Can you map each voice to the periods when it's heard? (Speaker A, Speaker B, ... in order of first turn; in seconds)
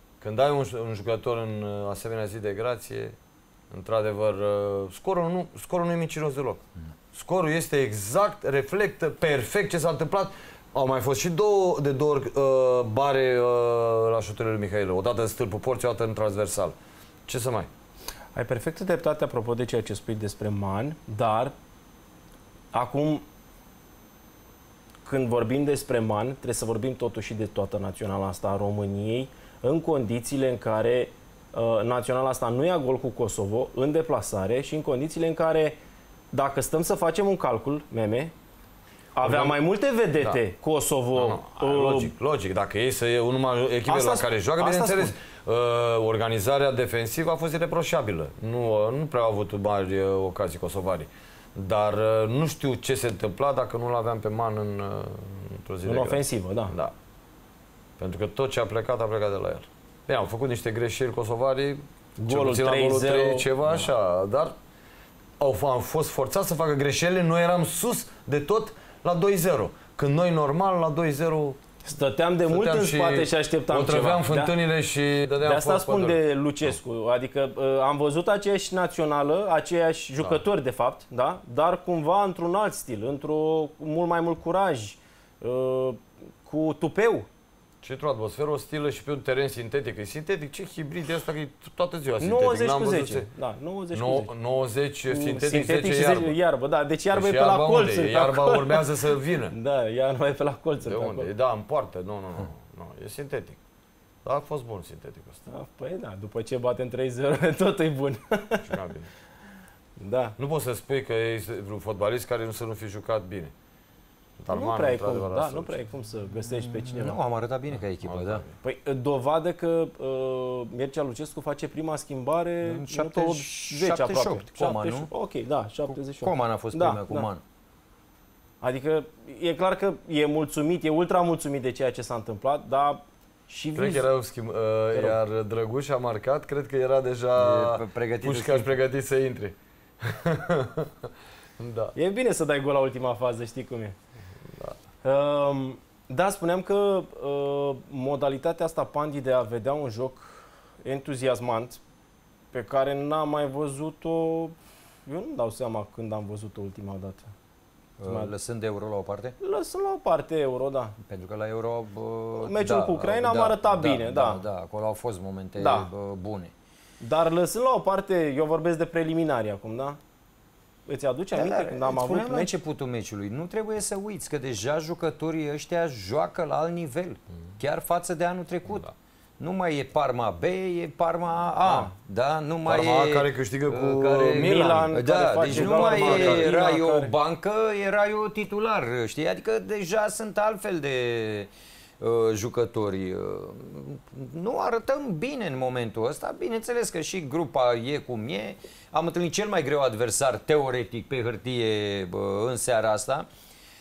Speaker A: 0.2-3.1, 3.7-16.7, 17.3-17.7, 39.2-39.6, 41.1-56.9, 58.0-64.5, 65.4-71.6, 72.5-76.8, 87.8-93.3, 93.9-96.3, 97.1-99.5, 100.8-103.6, 104.2-105.5, 108.6-109.1, 110.4-113.5, 114.4-115.8, 117.7-118.5, 133.7-141.9, 182.6-186.5
Speaker B: 18.3-21.5, 22.7-23.2, 25.0-35.8, 36.3-38.3, 39.1-42.1, 43.9-45.1, 55.8-56.7, 62.2-63.5, 71.8-74.5, 75.4-87.3, 92.2-94.3, 95.1-98.8, 99.5-101.3, 105.5-108.6, 110.0-110.3, 114.5-117.2, 118.6-127.3, 128.6-134.1, 134.9-135.2, 141.9-143.9, 145.0-151.8, 152.5-154.5, 155.1-157.3, 159.4-160.9, 162.4-164.4, 165.6-165.9, 167.0-170.0, 170.9-172.5, 181.6-181.9, 184.3-187.1
Speaker C: 116.5-118.4, 122.6-125.1, 125.9-127.4, 137.3-138.8, 158.0-159.3, 161.0-166.5, 171.3-178.9, 179.4-203.3